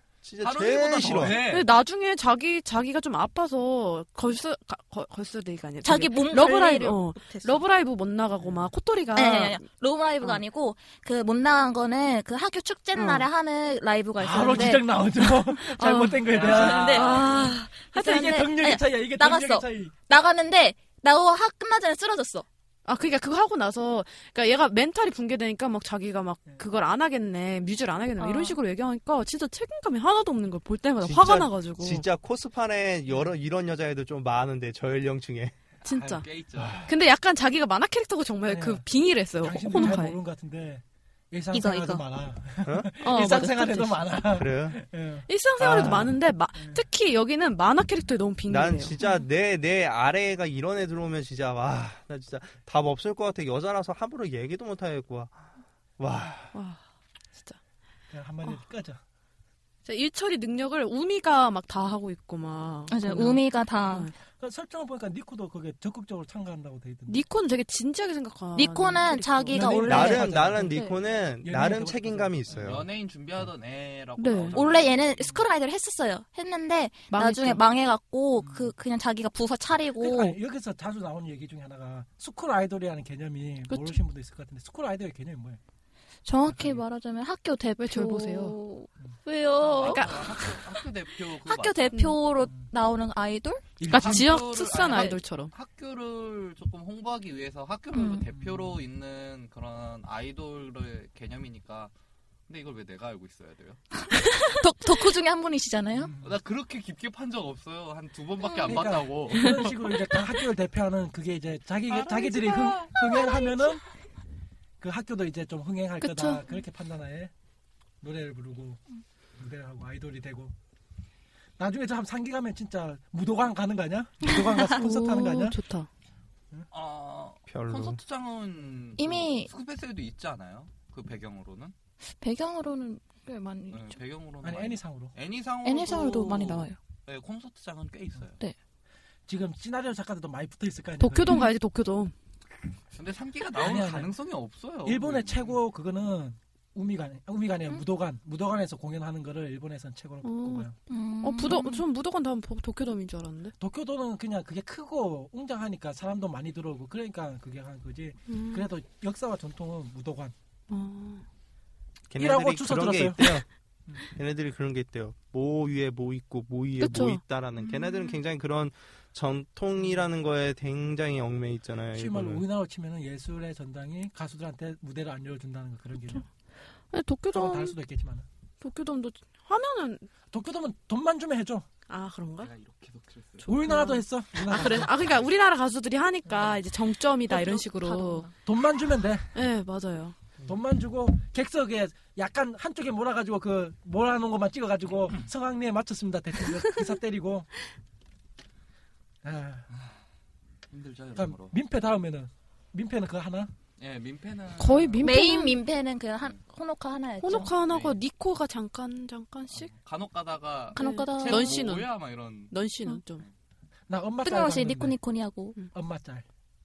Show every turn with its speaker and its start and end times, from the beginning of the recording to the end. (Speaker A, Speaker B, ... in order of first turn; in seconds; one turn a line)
Speaker A: 0.2-1.4
Speaker B: 0.4-1.7
Speaker C: 1.3-9.7
Speaker D: 5.8-7.6
Speaker D: 9.1-15.0
Speaker C: 12.9-13.2
Speaker E: 14.2-17.3
Speaker C: 15.8-17.5
Speaker B: 16.3-17.3
Speaker D: 16.4-22.4
Speaker E: 17.9-19.9
Speaker C: 22.9-32.0
Speaker D: 28.2-28.6
Speaker A: 31.0-35.5
Speaker C: 35.8-36.2
Speaker B: 36.0-36.8
Speaker A: 36.6-36.9
Speaker C: 36.9-40.2
Speaker E: 38.5-38.8
Speaker E: 39.4-46.0
Speaker D: 41.5-42.0
Speaker A: 42.6-42.9
Speaker C: 43.0-44.0
Speaker A: 44.2-44.8
Speaker C: 45.3-49.0
Speaker A: 45.6-46.1
Speaker E: 46.6-46.8
Speaker A: 48.5-55.4
Speaker A: 56.0-56.5
Speaker C: 56.5-56.8
Speaker E: 58.1-59.0
Speaker C: 59.8-64.1
Speaker D: 62.9-64.1
Speaker E: 64.4-67.2
Speaker C: 67.1-70.1
Speaker D: 68.5-71.0
Speaker E: 69.5-70.8
Speaker A: 69.8-72.8
Speaker E: 71.4-72.7
Speaker B: 72.5-74.9
Speaker C: 74.2-74.6
Speaker D: 74.5-80.4
Speaker C: 77.1-77.6
Speaker E: 78.4-78.7
Speaker E: 80.0-85.6
Speaker C: 83.7-84.0
Speaker D: 86.2-90.1
Speaker E: 86.5-86.8
Speaker C: 87.8-88.6
Speaker B: 89.7-91.9
Speaker C: 89.8-90.2
Speaker D: 91.4-93.7
Speaker C: 91.9-92.2
Speaker E: 93.8-94.4
Speaker C: 93.9-95.5
Speaker B: 94.0-101.9
Speaker D: 97.9-98.2
Speaker E: 98.3-98.8
Speaker B: 102.5-103.8
Speaker D: 104.1-106.1
Speaker E: 105.9-106.3
Speaker B: 106.2-109.7
Speaker D: 108.4-108.9
Speaker E: 108.7-113.8
Speaker B: 111.9-113.1
Speaker E: 114.8-117.3
Speaker C: 116.0-116.4
Speaker E: 118.0-118.8
Speaker E: 119.4-120.5
Speaker E: 121.6-125.6
Speaker C: 124.7-125.9
Speaker B: 126.7-131.7
Speaker A: 127.5-128.0
Speaker D: 129.0-129.5
Speaker D: 132.2-134.0
Speaker B: 133.7-138.4
Speaker E: 134.4-135.1
Speaker D: 135.6-136.8
Speaker E: 139.3-141.4
Speaker C: 141.0-142.1
Speaker B: 142.9-145.6
Speaker E: 143.5-144.1
Speaker E: 144.8-150.8
Speaker C: 150.2-150.7
Speaker D: 150.9-151.8
Speaker C: 151.2-153.5
Speaker E: 153.6-160.3
Speaker C: 158.3-158.7
Speaker C: 160.7-161.2
Speaker A: 162.1-163.4
Speaker E: 162.2-164.0
Speaker A: 164.1-172.4
Speaker C: 166.8-167.2
Speaker E: 171.9-176.2
Speaker C: 176.9-177.7
Speaker E: 177.3-178.2
Speaker C: 178.6-180.1
Speaker E: 180.3-181.7
Speaker C: 181.9-182.5
Speaker B: 182.4-183.5
Speaker E: 183.4-184.9
Speaker C: 183.5-188.3
Speaker D: 187.3-188.3
Speaker E: 188.4-189.3
Speaker C: 189.3-190.1
Speaker E: 190.4-197.5
Speaker E: 199.2-199.7
Speaker B: 200.7-201.5
Speaker E: 201.1-203.5
Speaker B: 203.8-205.0
Speaker C: 204.6-205.6
Speaker D: 205.0-207.6
Speaker C: 207.2-209.7
Speaker B: 207.3-208.0
Speaker B: 209.5-212.5
Speaker D: 210.7-211.7
Speaker C: 210.8-212.0
Speaker C: 212.5-213.2
Speaker E: 213.9-214.9
Speaker D: 214.2-215.6
Speaker E: 215.7-216.2